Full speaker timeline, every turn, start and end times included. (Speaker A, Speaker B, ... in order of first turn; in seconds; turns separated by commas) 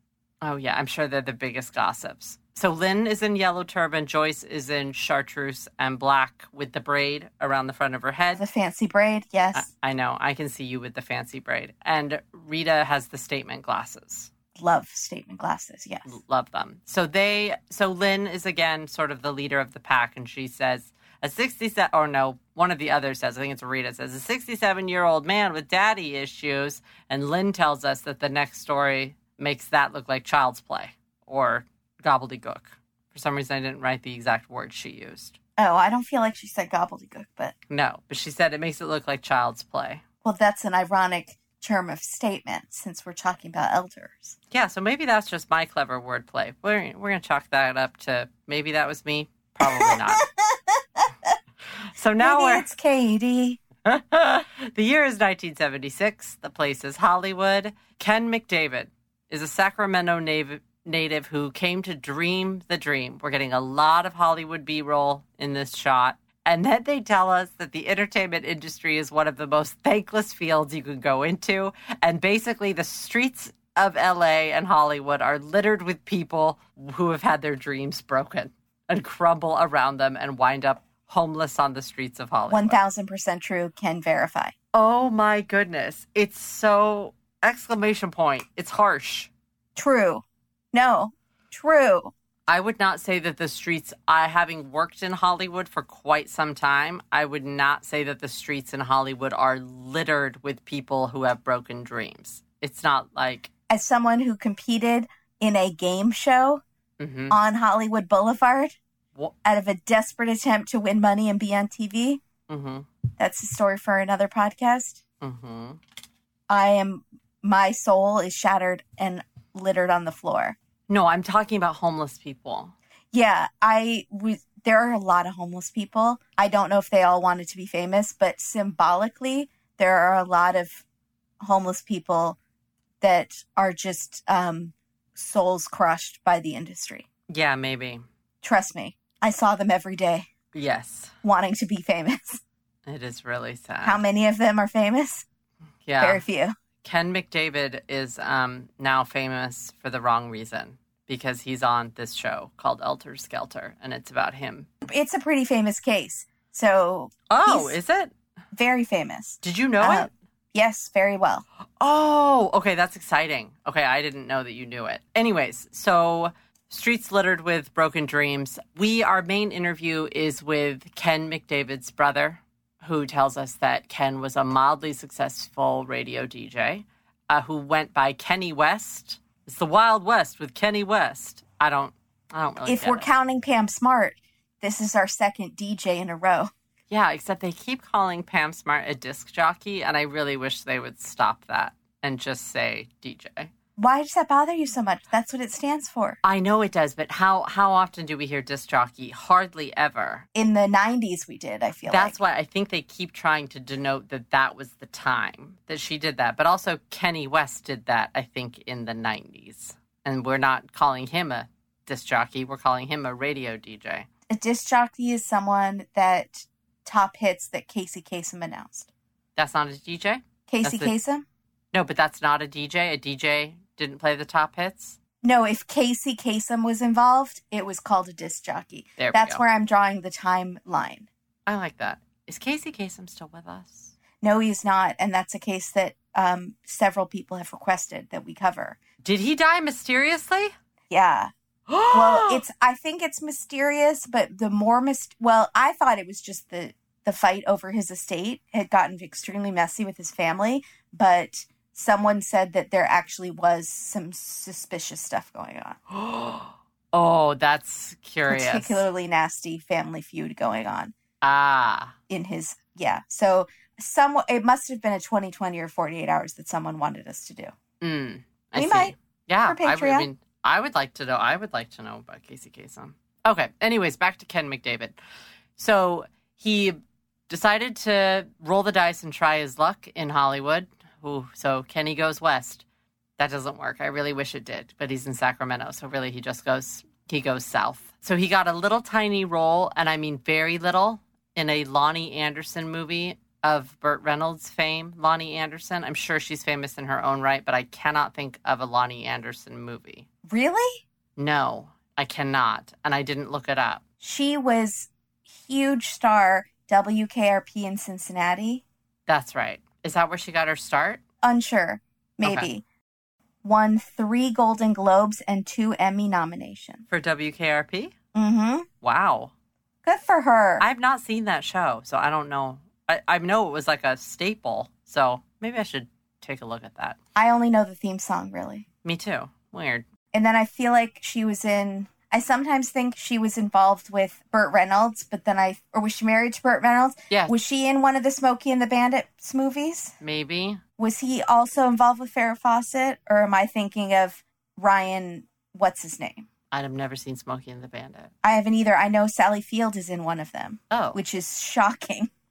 Speaker A: 0.4-8.4, Speaker B: 8.3-9.7, Speaker A: 9.6-14.3, Speaker B: 14.6-16.2, Speaker A: 16.1-35.4, Speaker B: 35.6-37.5, Speaker A: 37.7-40.0, Speaker B: 40.2-44.4, Speaker A: 44.5-50.2, Speaker B: 49.6-51.4, Speaker A: 51.9-52.7, Speaker B: 52.2-53.6, Speaker A: 53.9-82.8, Speaker B: 82.5-84.5, Speaker A: 84.7-89.3, Speaker B: 89.8-92.1, Speaker A: 92.5-103.5, Speaker B: 103.7-106.6, Speaker A: 107.0-107.4, Speaker B: 107.3-108.8, Speaker B: 109.5-112.2, Speaker A: 112.5-112.9, Speaker B: 113.2-115.0, Speaker A: 115.2-115.8, Speaker B: 116.5-120.6, Speaker A: 120.9-122.7, Speaker B: 123.1-130.8, Speaker B: 131.4-132.4, Speaker B: 133.0-137.1, Speaker A: 137.3-138.0, Speaker B: 138.4-140.3, Speaker A: 140.5-141.2, Speaker B: 141.2-142.4, Speaker A: 142.9-144.0, Speaker B: 143.8-145.2, Speaker A: 145.8-146.2, Speaker B: 146.0-146.6, Speaker A: 146.8-154.7, Speaker B: 154.9-157.8, Speaker A: 157.3-158.1, Speaker B: 158.5-161.4, Speaker A: 159.4-160.1, Speaker A: 161.8-183.1, Speaker B: 182.7-186.5, Speaker A: 186.9-193.5, Speaker B: 193.8-196.2, Speaker A: 196.2-200.3, Speaker B: 200.4-202.2, Speaker A: 201.9-214.1, Speaker B: 214.3-218.9, Speaker A: 219.4-220.9, Speaker B: 220.5-221.2, Speaker A: 221.7-225.0, Speaker B: 225.2-231.1, Speaker A: 229.0-229.4, Speaker A: 231.5-233.9, Speaker B: 234.2-238.8, Speaker A: 239.0-240.5, Speaker B: 240.9-241.3, Speaker A: 241.7-242.4, Speaker B: 241.9-255.8, Speaker A: 255.9-258.9, Speaker B: 258.3-260.9, Speaker A: 261.2-261.9, Speaker B: 262.1-267.5, Speaker A: 267.8-275.0, Speaker B: 268.6-270.1, Speaker A: 275.6-276.8, Speaker A: 277.3-282.6, Speaker A: 283.2-300.1, Speaker B: 300.3-300.8, Speaker A: 301.2-303.8, Speaker B: 304.0-308.6, Speaker A: 309.1-311.0, Speaker B: 311.2-312.6, Speaker B: 313.4-316.9, Speaker A: 316.9-317.9, Speaker B: 318.1-318.7, Speaker A: 318.8-319.3, Speaker B: 319.8-320.6, Speaker A: 320.6-327.0, Speaker B: 327.2-328.7, Speaker A: 328.8-329.9, Speaker B: 330.1-339.9, Speaker A: 340.0-340.6, Speaker B: 340.8-346.3, Speaker A: 346.5-348.1, Speaker B: 348.2-352.1, Speaker A: 350.7-351.0